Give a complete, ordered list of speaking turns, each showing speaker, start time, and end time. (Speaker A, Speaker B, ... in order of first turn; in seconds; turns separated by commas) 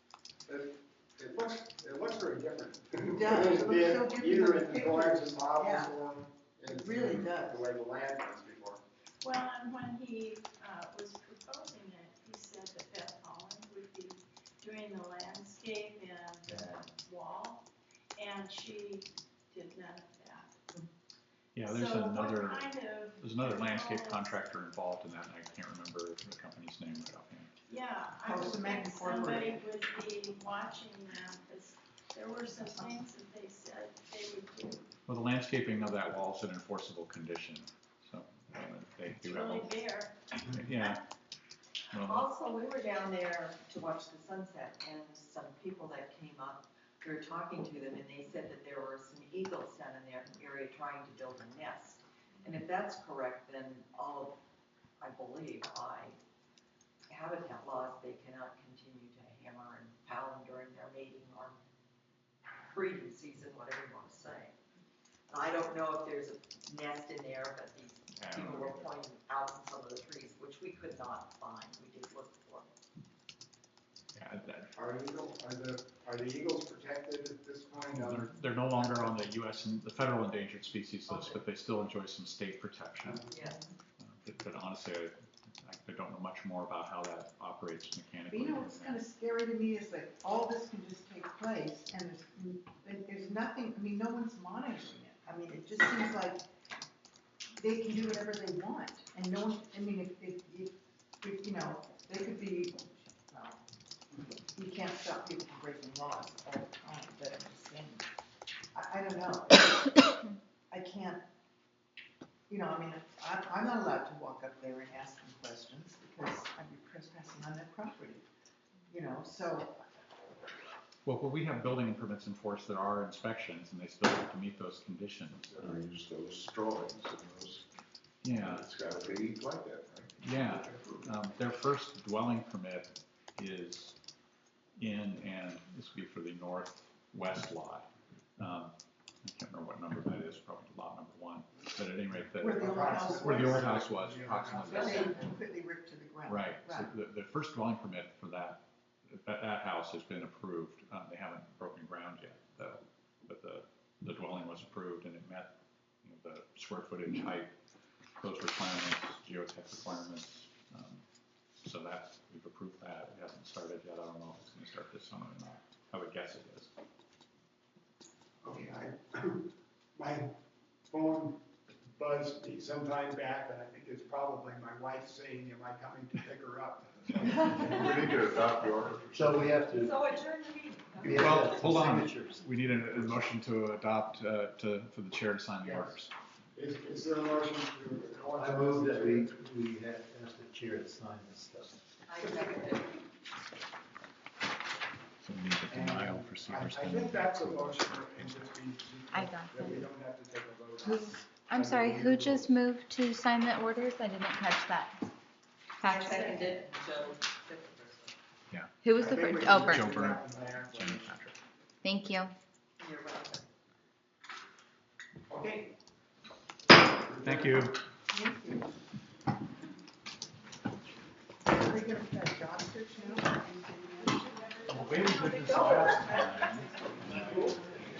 Speaker A: 0.5-8.8, Speaker B: 3.1-5.9, Speaker B: 6.7-7.6, Speaker C: 9.2-17.6, Speaker C: 18.1-20.6, Speaker D: 21.5-27.5, Speaker C: 21.6-24.4, Speaker C: 27.7-34.9, Speaker B: 28.2-29.6, Speaker B: 32.6-32.9, Speaker D: 35.1-39.7, Speaker C: 39.2-40.4, Speaker D: 40.5-41.0, Speaker D: 41.9-42.3, Speaker E: 42.0-54.4, Speaker E: 55.0-56.2, Speaker E: 57.1-61.5, Speaker E: 62.6-64.5, Speaker E: 65.3-72.7, Speaker D: 68.2-68.9, Speaker D: 74.1-74.7, Speaker A: 74.7-79.1, Speaker D: 77.9-83.2, Speaker E: 81.1-81.4, Speaker A: 83.0-83.3, Speaker E: 83.3-83.6, Speaker D: 84.0-89.0, Speaker B: 88.3-96.5, Speaker B: 97.6-103.6, Speaker B: 104.5-108.1, Speaker B: 108.7-110.2, Speaker B: 110.7-111.2, Speaker B: 112.5-118.2, Speaker B: 118.9-119.8, Speaker D: 121.0-125.9, Speaker F: 125.4-127.6, Speaker D: 128.2-128.7, Speaker F: 128.3-131.1, Speaker D: 130.2-134.0, Speaker D: 134.8-145.2, Speaker B: 142.4-143.8, Speaker A: 142.6-145.3, Speaker B: 144.7-146.9, Speaker D: 146.2-155.5, Speaker D: 156.0-157.5, Speaker D: 158.2-161.0, Speaker D: 161.6-166.7, Speaker A: 168.4-170.3, Speaker A: 170.9-171.4, Speaker A: 172.0-178.4, Speaker F: 177.8-179.5, Speaker G: 179.1-179.9, Speaker E: 179.7-181.6, Speaker G: 181.0-182.4, Speaker D: 181.1-186.1, Speaker A: 186.5-189.3, Speaker G: 188.3-191.8, Speaker E: 192.1-192.9, Speaker D: 195.2-198.5, Speaker A: 195.7-202.6, Speaker H: 199.1-199.8, Speaker H: 200.8-204.9, Speaker H: 205.8-206.4, Speaker E: 205.8-208.1, Speaker H: 208.8-210.1, Speaker A: 208.9-211.1, Speaker D: 209.6-211.3, Speaker H: 211.8-212.3, Speaker E: 212.8-213.5, Speaker A: 215.3-215.7, Speaker A: 217.0-217.6, Speaker D: 217.2-217.8, Speaker B: 218.1-218.8, Speaker B: 221.4-225.1, Speaker D: 224.7-227.5, Speaker C: 225.3-225.7, Speaker G: 227.1-227.5